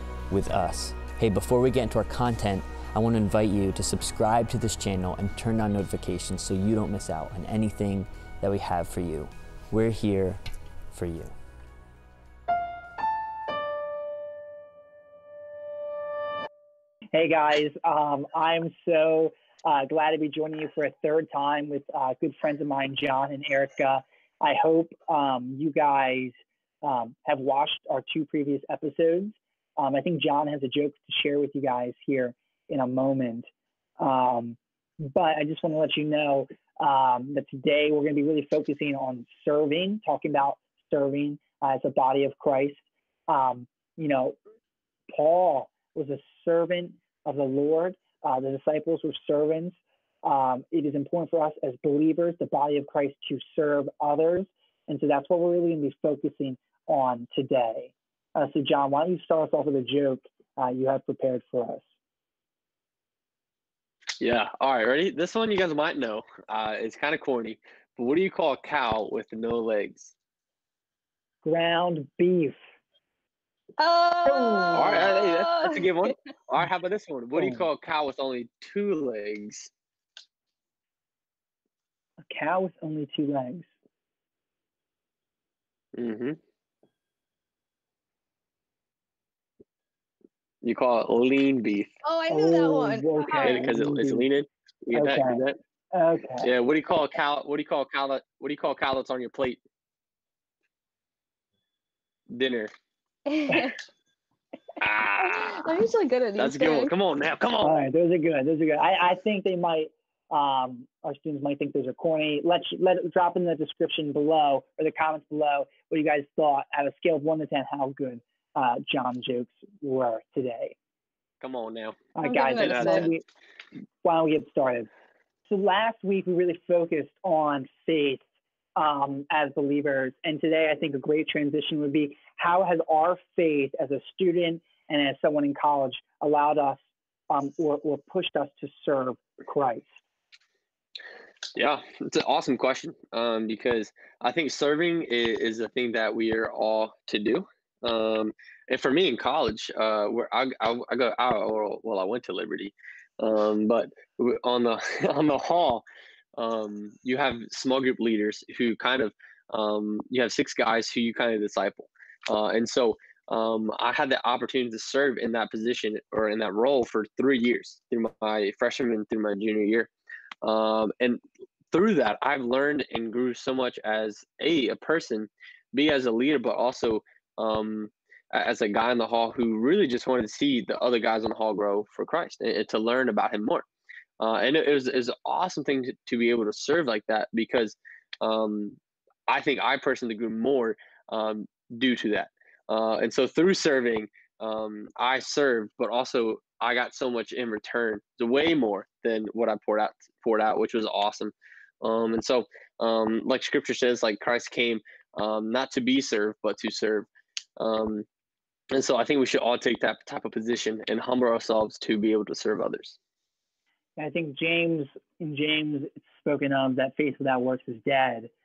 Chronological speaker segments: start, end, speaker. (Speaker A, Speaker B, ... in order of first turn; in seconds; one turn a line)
Speaker A: 0.3-11.4
Speaker B: 17.1-33.5
Speaker B: 34.0-44.4
Speaker B: 45.1-61.8
Speaker C: 64.2-70.1
Speaker B: 71.4-72.6
Speaker D: 73.8-76.1
Speaker B: 74.2-75.1
Speaker C: 74.7-79.7
Speaker B: 77.4-77.7
Speaker B: 82.2-83.7
Speaker C: 86.0-86.4
Speaker C: 90.6-91.9
Speaker D: 92.0-93.7
Speaker B: 92.3-94.3
Speaker C: 93.4-95.6
Speaker B: 94.9-96.5
Speaker C: 96.4-99.6
Speaker C: 102.3-102.7
Speaker D: 103.3-103.8
Speaker C: 104.8-105.7
Speaker D: 105.2-106.9
Speaker C: 106.4-107.8
Speaker B: 107.6-120.8
Speaker C: 121.4-122.0
Speaker B: 122.2-123.2
Speaker D: 122.2-123.1
Speaker C: 122.6-123.1
Speaker B: 124.0-124.9
Speaker B: 125.5-128.2
Speaker B: 128.8-139.9
Speaker C: 141.6-155.8
Speaker C: 156.4-169.9
Speaker C: 170.4-171.2
Speaker C: 171.7-183.7
Speaker C: 184.2-208.1
Speaker C: 208.7-213.0
Speaker B: 214.0-218.3